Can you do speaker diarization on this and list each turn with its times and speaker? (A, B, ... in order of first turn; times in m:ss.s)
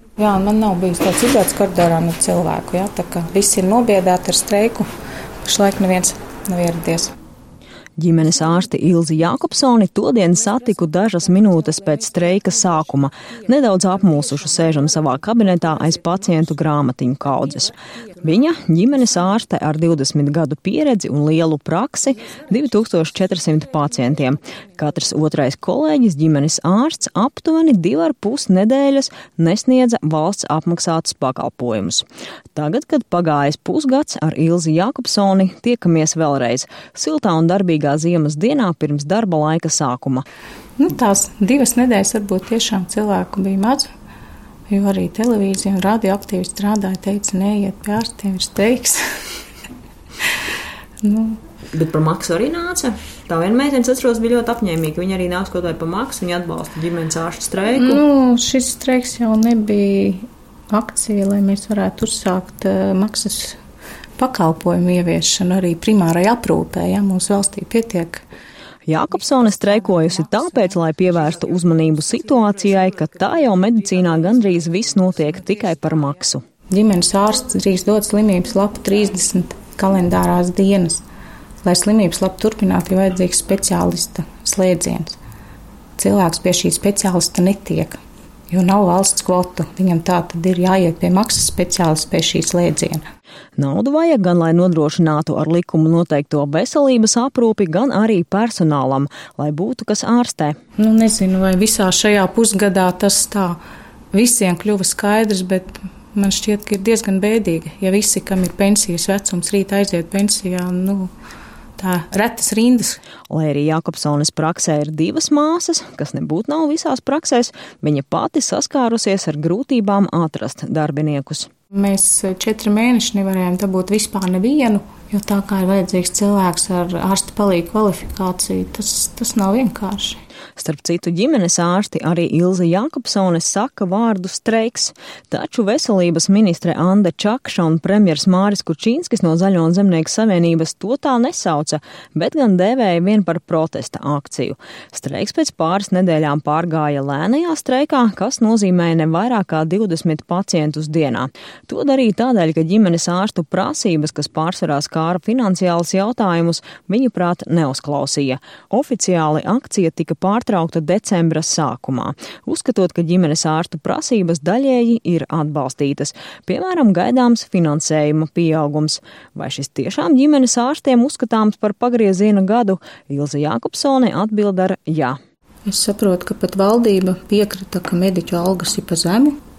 0:00.2-0:04.9 A
0:05.4-0:07.1 A
0:08.0-0:32.0 B
0:32.6-0:40.2 B
0:40.8-0:43.9 A
0:44.7-0:49.0 A
0:51.0-0:51.4 A
0:51.7-0:58.0 B
0:57.8-1:03.6 A
1:04.2-1:08.2 A
1:08.9-1:16.4 B
1:16.7-1:21.0 A
1:21.6-1:25.2 A
1:26.0-1:28.0 A
1:28.5-1:33.0 A
1:33.6-1:40.6 B
1:40.8-1:43.6 A
1:44.1-1:51.1 A
1:51.8-1:53.0 A
1:53.3-2:01.5 B
2:01.7-2:10.2 A
2:10.6-2:55.2 B
2:55.7-2:59.4 A